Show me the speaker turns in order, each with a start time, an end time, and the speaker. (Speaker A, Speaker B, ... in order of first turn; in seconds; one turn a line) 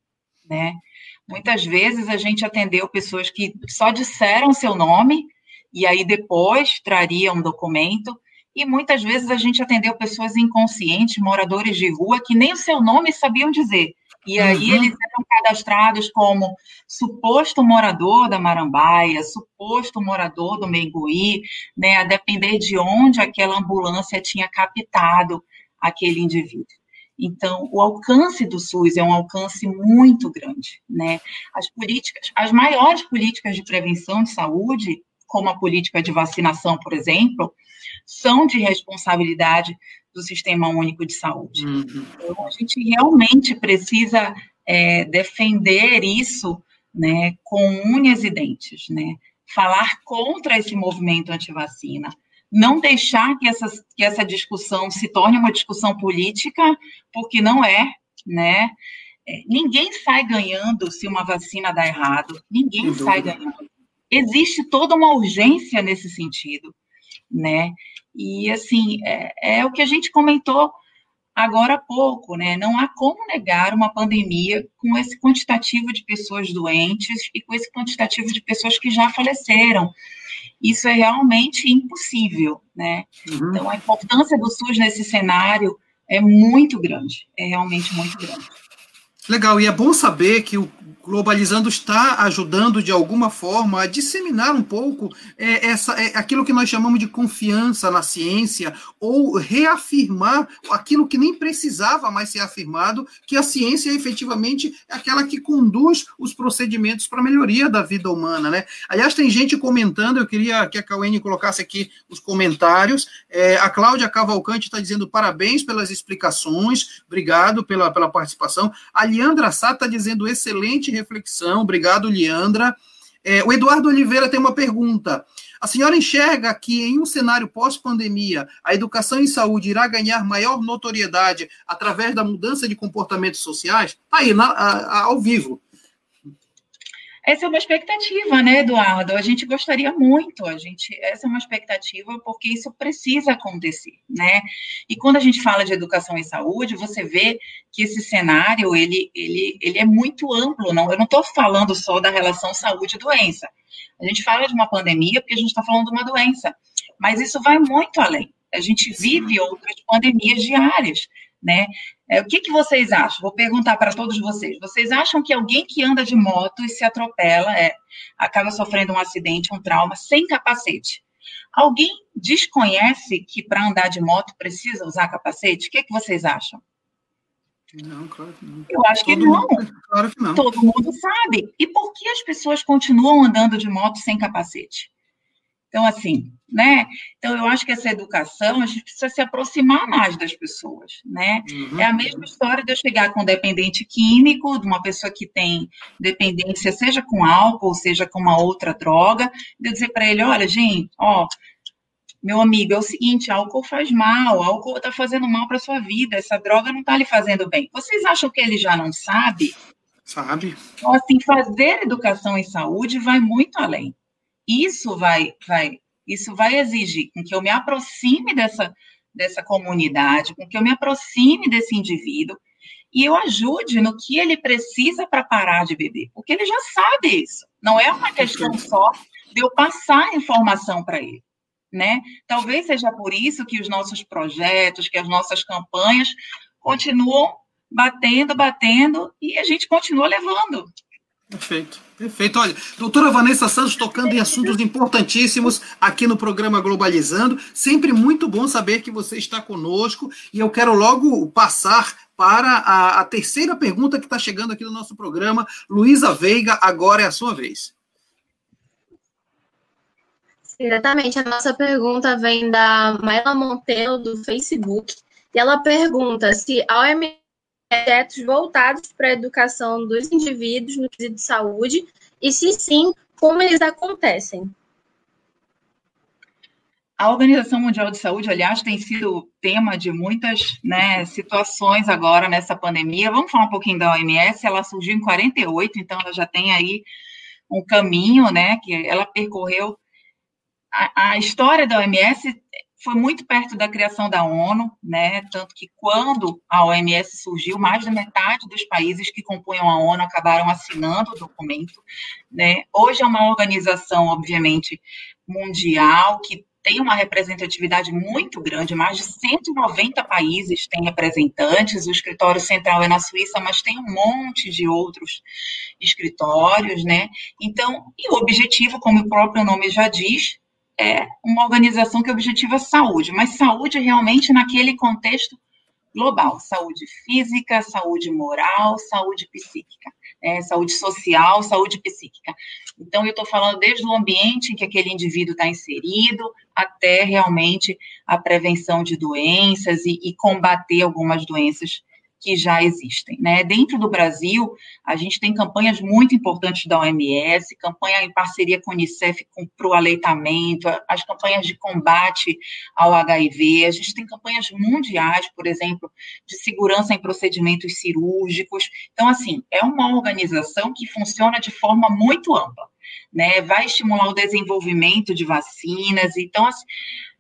Speaker A: 0.5-41.7
Speaker B: 14.4-14.9
Speaker B: 41.6-42.1
Speaker A: 42.2-58.8
Speaker A: 59.3-66.8
Speaker B: 62.8-63.4
Speaker A: 67.3-70.8
Speaker A: 71.4-79.9
Speaker A: 80.6-88.5
Speaker B: 83.3-83.6
Speaker B: 89.3-135.6
Speaker A: 137.2-171.0
Speaker A: 171.5-176.6
Speaker B: 177.7-180.4
Speaker A: 178.7-179.7
Speaker A: 180.3-184.9
Speaker A: 185.7-201.3
Speaker B: 191.5-192.2
Speaker A: 202.2-209.6
Speaker B: 210.1-210.6
Speaker A: 210.8-213.9
Speaker A: 214.5-222.4
Speaker A: 222.9-240.7
Speaker B: 228.2-228.6
Speaker B: 241.3-257.7
Speaker A: 244.0-244.5
Speaker C: 260.5-274.5
Speaker A: 277.0-286.9
Speaker A: 287.5-289.8
Speaker A: 290.7-315.2
Speaker A: 315.8-325.4
Speaker A: 325.9-366.7